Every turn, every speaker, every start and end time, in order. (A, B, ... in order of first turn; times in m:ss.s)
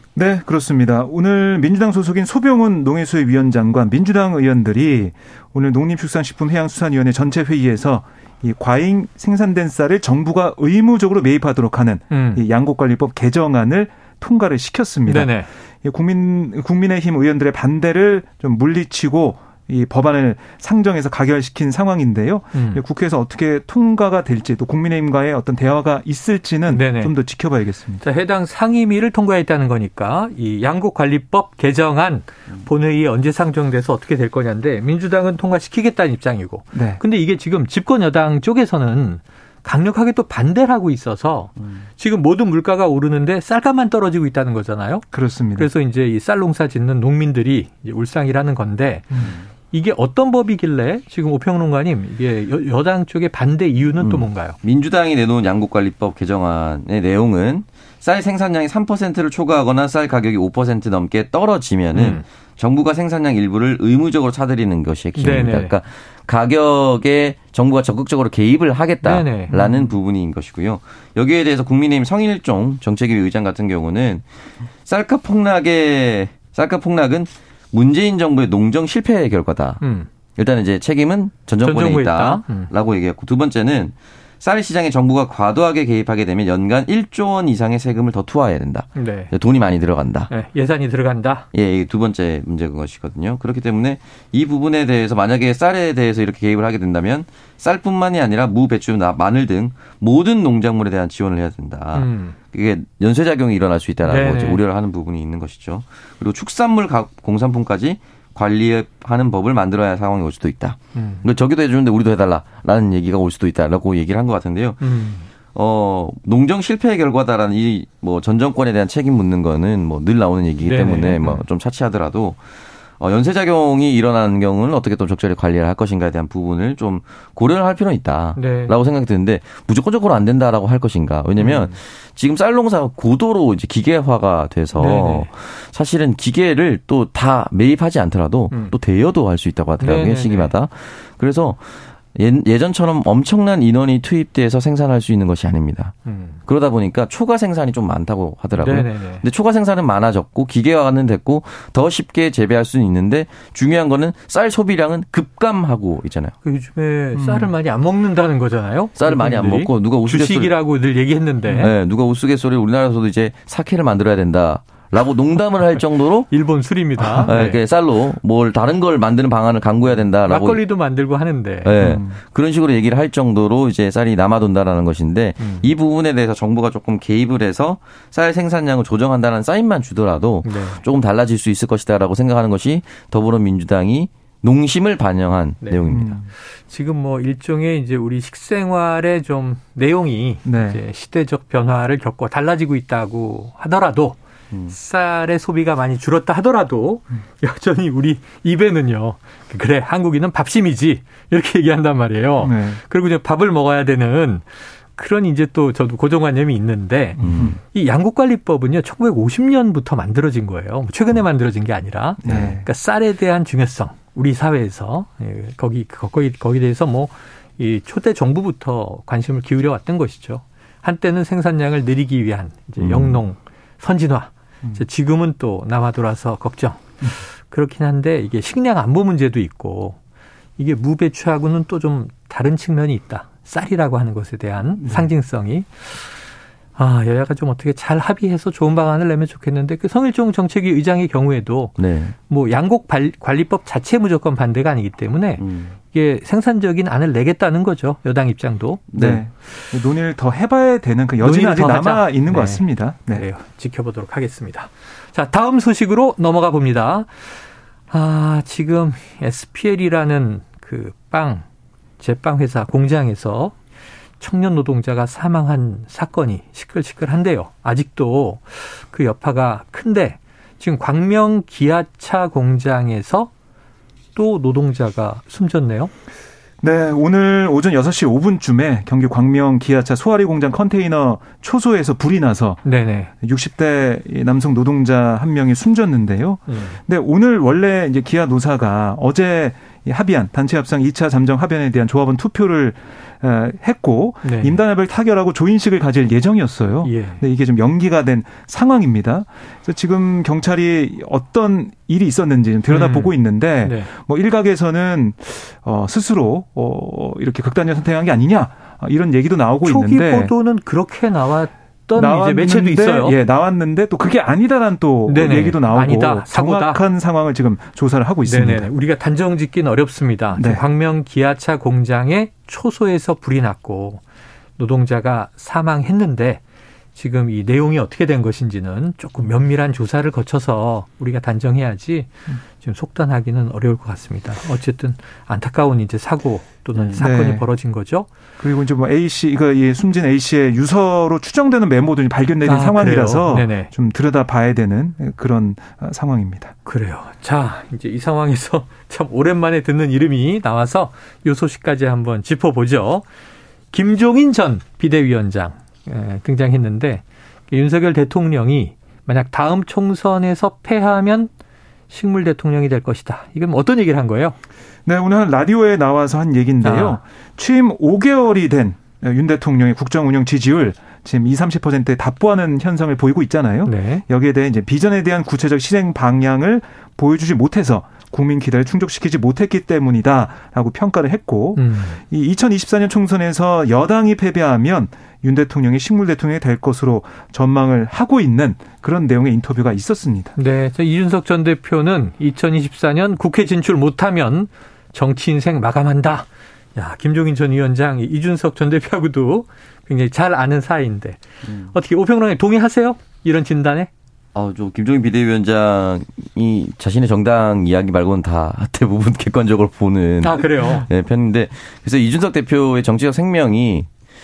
0:00.2-0:28.0 A
0:12.1-0:12.4 B
0:15.1-0:15.5 B
0:22.5-0:22.8 B
0:26.7-0:27.1 B
0:28.0-0:49.1 B
0:36.7-0:37.0 A
0:41.6-0:41.8 C
0:45.1-0:45.7 A
0:49.2-0:49.5 C
0:49.7-0:54.6 B
0:54.0-1:14.2 C
1:01.9-1:02.2 B
1:05.2-1:05.7 B
1:09.0-1:09.5 B
1:09.5-1:09.8 A
1:14.8-1:19.8 C
1:19.8-1:20.1 B
1:20.4-1:30.3 C
1:21.6-1:22.7 B
1:29.0-1:29.3 B
1:30.3-1:31.5 B
1:31.5-1:54.9 C
1:41.9-1:42.4 B
1:44.1-1:44.6 B
1:51.0-1:51.2 B
1:54.8-1:55.2 B
1:55.5-2:02.4 C
2:00.6-2:01.4 B
2:03.0-2:36.4 C
2:08.4-2:08.7 B
2:11.4-2:11.8 B
2:14.8-2:15.3 B
2:19.8-2:20.5 B
2:26.1-2:26.4 B
2:28.6-2:29.2 B
2:36.4-2:41.7 B
2:37.1-2:37.5 A
2:39.0-2:40.5 C
2:41.6-2:46.3 C
2:46.3-2:47.6 B
2:47.0-2:47.4 A
2:47.2-2:50.6 C
2:50.3-2:51.8 B
2:51.6-3:06.2 C
2:51.8-2:52.2 A
2:55.4-2:55.7 B
3:00.4-3:00.8 B
3:05.9-3:06.3 A
3:06.7-3:14.2 B
3:10.4-3:10.8 A
3:14.7-3:46.8 B
3:22.4-3:22.8 A
3:27.2-3:27.6 A
3:27.2-3:27.6 C
3:32.2-3:32.7 A
3:32.3-3:32.5 C
3:42.8-3:43.2 C
3:47.5-3:50.0 B
3:50.6-3:56.2 B
3:54.8-3:55.1 A
3:56.8-4:01.8 B
4:01.8-4:02.2 C
4:02.3-4:08.8 B
4:05.4-4:05.8 C
4:08.9-4:09.2 C
4:09.0-4:13.3 A
4:11.2-4:17.2 B
4:17.9-4:21.4 B
4:22.0-4:23.6 B
4:24.2-4:33.3 B
4:34.2-4:35.9 B
4:36.6-4:42.6 A
4:42.6-4:43.1 B
4:43.2-5:10.3 A
4:46.5-4:46.8 B
4:54.2-4:54.6 B
4:56.8-4:57.2 B
5:02.7-5:03.9 B
5:09.6-5:13.2 B
5:12.0-5:18.7 A
5:15.1-5:16.8 B
5:18.2-5:24.0 B
5:20.3-5:20.6 A
5:24.6-5:26.4 B
5:27.0-5:38.1 B
5:37.0-5:37.4 A
5:38.4-5:46.5 A
5:42.4-5:43.7 B
5:46.7-5:53.0 B
5:53.7-6:01.3 B
6:01.9-6:04.4 B
6:04.9-6:30.4 A
6:06.6-6:07.0 B
6:13.6-6:14.0 B
6:21.6-6:22.0 B
6:30.4-6:41.2 B
6:41.4-6:41.7 C
6:41.7-6:43.9 B
6:44.4-6:53.9 C
6:50.2-6:50.9 B